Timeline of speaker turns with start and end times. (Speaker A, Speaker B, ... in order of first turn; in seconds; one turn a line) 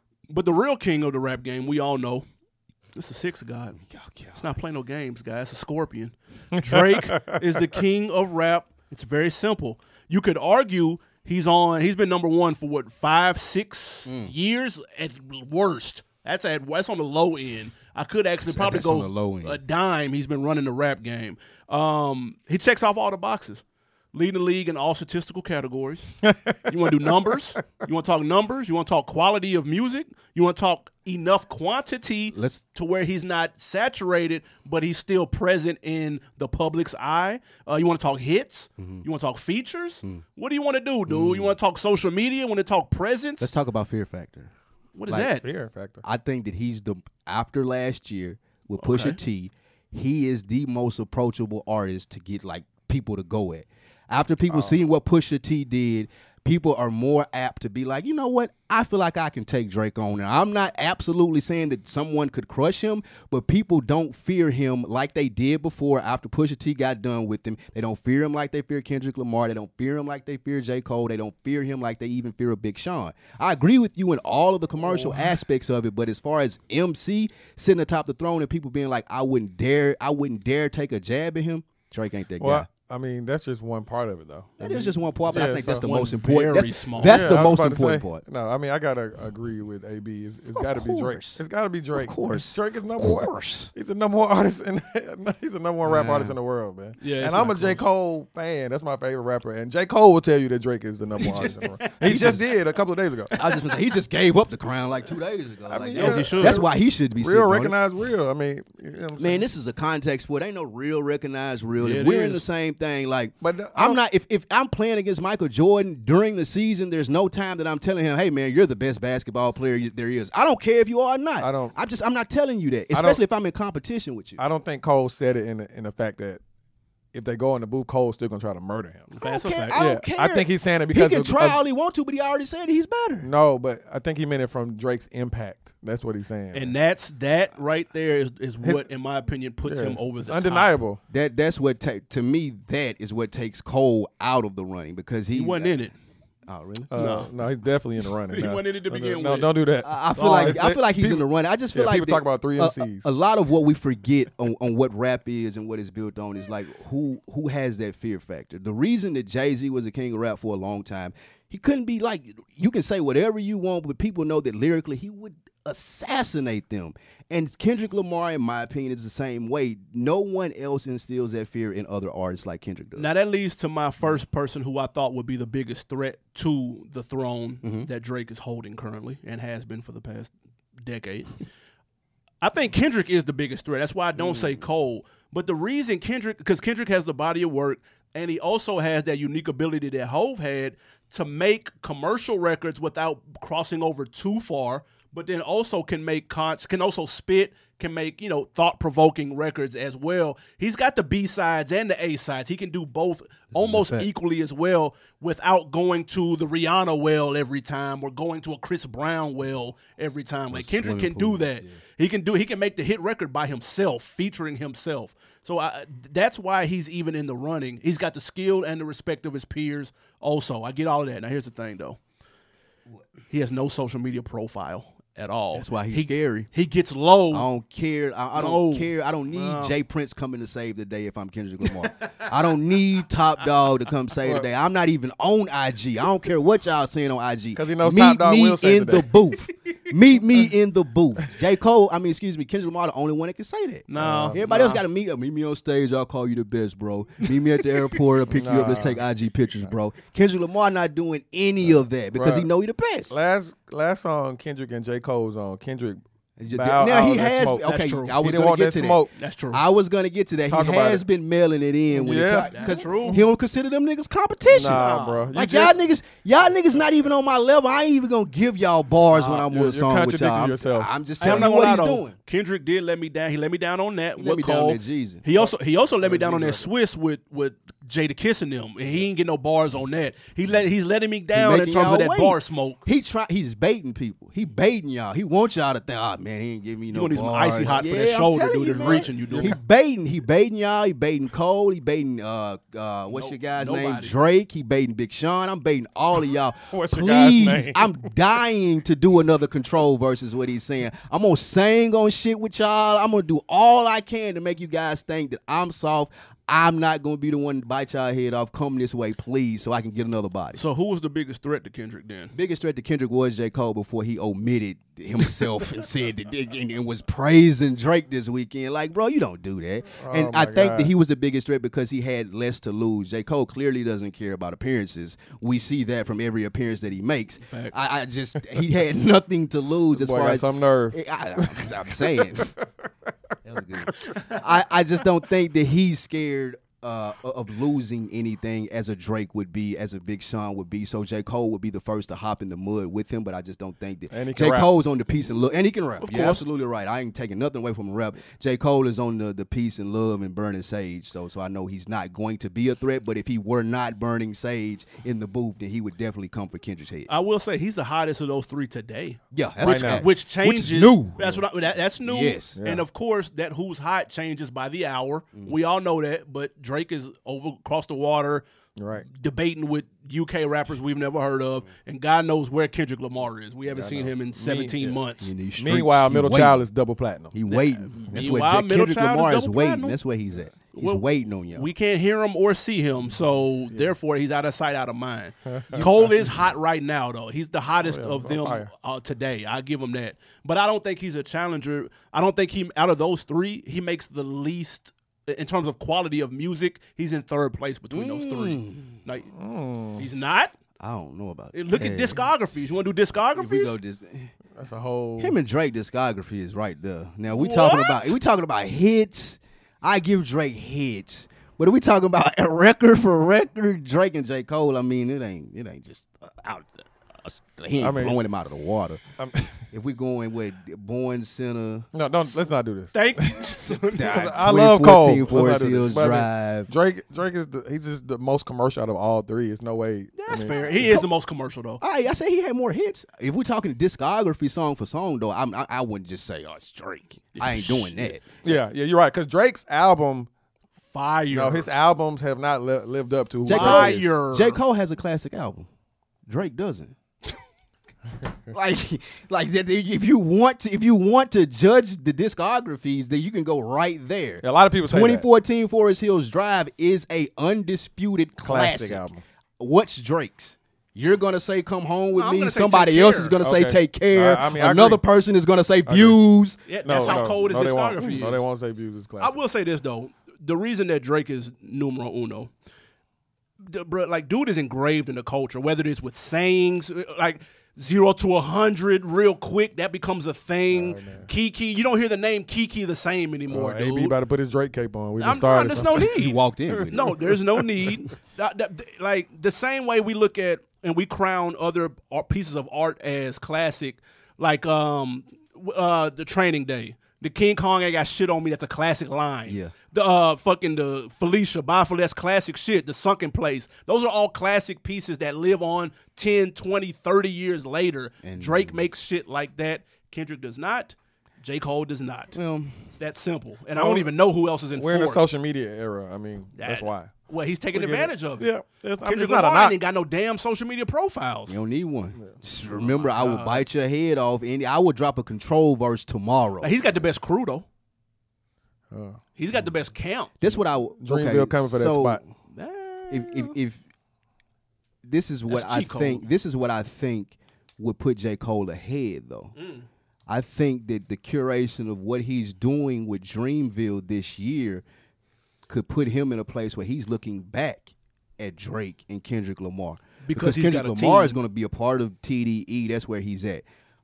Speaker A: 0.3-2.3
Speaker A: 3.0-3.8
Speaker B: 3.8-4.5
Speaker A: 4.3-26.1
Speaker C: 6.6-7.4
Speaker B: 14.1-14.3
Speaker B: 18.4-19.6
Speaker C: 26.2-27.2
Speaker A: 26.7-43.5
Speaker B: 32.3-32.6
Speaker B: 38.8-39.0
Speaker B: 41.1-41.5
Speaker B: 43.4-44.5
Speaker A: 45.0-45.4
Speaker C: 45.2-46.0
Speaker B: 46.0-82.7
Speaker A: 48.8-49.2
Speaker C: 54.5-54.8
Speaker C: 74.9-75.2
Speaker C: 82.4-85.9
Speaker B: 84.6-88.2
Speaker A: 85.3-87.4
Speaker C: 87.0-103.3
Speaker B: 90.5-91.4
Speaker B: 91.9-93.7
Speaker B: 95.9-96.3
Speaker A: 95.9-96.2
Speaker A: 97.0-97.9
Speaker A: 101.2-102.4
Speaker B: 102.0-102.4
Speaker B: 103.3-107.8
Speaker C: 105.7-109.4
Speaker A: 105.9-106.6
Speaker B: 109.2-124.4
Speaker A: 111.8-112.4
Speaker C: 113.4-114.0
Speaker C: 121.4-121.7
Speaker C: 122.9-123.2
Speaker C: 124.4-126.4
Speaker C: 127.1-129.1
Speaker A: 129.1-129.8
Speaker B: 129.2-133.3
Speaker C: 129.7-131.6
Speaker C: 133.2-136.7
Speaker A: 136.5-140.7
Speaker C: 139.6-141.0
Speaker B: 141.1-145.7
Speaker A: 145.3-145.9
Speaker B: 146.5-146.9
Speaker C: 146.9-153.1
Speaker A: 146.9-147.3
Speaker A: 148.1-149.6
Speaker B: 149.8-173.1
Speaker A: 150.2-150.6
Speaker A: 172.9-181.3
Speaker B: 177.6-177.9
Speaker A: 182.4-222.0
Speaker B: 184.2-184.7
Speaker B: 203.5-204.1
Speaker B: 210.5-211.8
Speaker A: 223.3-227.5
Speaker B: 225.5-226.5
Speaker B: 227.3-253.2
Speaker A: 228.3-229.8
Speaker C: 234.2-234.5
Speaker C: 237.5-239.1
Speaker A: 243.9-244.8
Speaker C: 243.9-244.4
Speaker C: 248.3-249.0
Speaker C: 251.6-252.5
Speaker C: 253.1-259.1
Speaker B: 256.4-272.1
Speaker A: 257.6-258.2
Speaker A: 259.1-259.6
Speaker C: 260.5-261.0
Speaker C: 261.9-263.2
Speaker A: 262.5-263.2
Speaker C: 264.5-265.8
Speaker A: 264.7-265.2
Speaker C: 269.1-271.5
Speaker A: 271.2-282.8
Speaker B: 274.2-275.2
Speaker C: 276.0-276.7
Speaker B: 281.3-310.6
Speaker A: 286.9-289.6
Speaker A: 293.1-294.1
Speaker C: 296.7-298.2
Speaker A: 310.5-312.3
Speaker B: 312.3-332.5
Speaker C: 319.9-320.9
Speaker A: 327.4-327.7
Speaker C: 329.9-332.6
Speaker B: 333.4-357.1
Speaker C: 344.1-344.7
Speaker A: 346.0-346.4
Speaker A: 357.1-368.4
Speaker B: 359.3-361.4
Speaker C: 359.6-360.1
Speaker B: 362.0-362.6
Speaker C: 362.6-362.8
Speaker C: 368.8-369.1
Speaker A: 369.1-375.3
Speaker C: 373.7-375.0
Speaker B: 375.2-376.6
Speaker C: 375.6-377.3
Speaker B: 377.3-381.7
Speaker A: 377.5-380.0
Speaker A: 380.7-399.3
Speaker C: 385.4-386.3
Speaker C: 387.8-388.7
Speaker B: 397.9-399.0
Speaker C: 399.3-400.1
Speaker A: 400.0-400.5
Speaker B: 400.8-402.6
Speaker A: 401.5-403.8
Speaker B: 403.3-404.3
Speaker C: 404.6-405.4
Speaker B: 405.2-419.0
Speaker A: 407.3-408.1
Speaker C: 417.8-418.2
Speaker C: 419.2-419.6
Speaker B: 419.7-421.9
Speaker C: 421.9-431.0
Speaker A: 422.9-424.4
Speaker B: 423.9-426.7
Speaker A: 430.2-431.8
Speaker B: 431.8-438.6
Speaker A: 437.3-438.1
Speaker C: 438.4-440.3
Speaker A: 440.9-441.7
Speaker C: 441.3-444.1
Speaker B: 443.4-445.7
Speaker A: 443.5-444.6
Speaker B: 446.3-446.9
Speaker B: 448.5-459.1
Speaker C: 454.4-455.2
Speaker C: 458.4-459.2
Speaker B: 459.6-467.4
Speaker A: 462.1-463.4
Speaker C: 463.4-465.0
Speaker C: 465.8-466.2
Speaker A: 466.7-468.4
Speaker C: 466.8-469.4
Speaker A: 469.2-472.5
Speaker A: 473.6-484.1
Speaker C: 480.7-481.3
Speaker C: 483.5-486.2
Speaker A: 485.2-486.4
Speaker B: 485.7-487.3
Speaker A: 486.9-512.4
Speaker B: 499.5-499.7
Speaker B: 508.2-508.8
Speaker B: 512.3-512.8
Speaker A: 513.0-515.2
Speaker C: 513.7-514.1
Speaker C: 514.7-519.7
Speaker A: 516.6-521.6
Speaker B: 521.5-526.8
Speaker A: 522.7-523.6
Speaker A: 526.6-527.6
Speaker C: 528.9-529.2
Speaker A: 529.4-530.3
Speaker B: 530.4-532.2
Speaker C: 531.0-532.2
Speaker A: 532.5-533.5
Speaker B: 533.1-533.8
Speaker B: 535.0-539.5
Speaker A: 535.5-536.2
Speaker A: 539.5-539.9
Speaker B: 540.3-544.8
Speaker B: 545.7-553.6
Speaker A: 550.2-551.4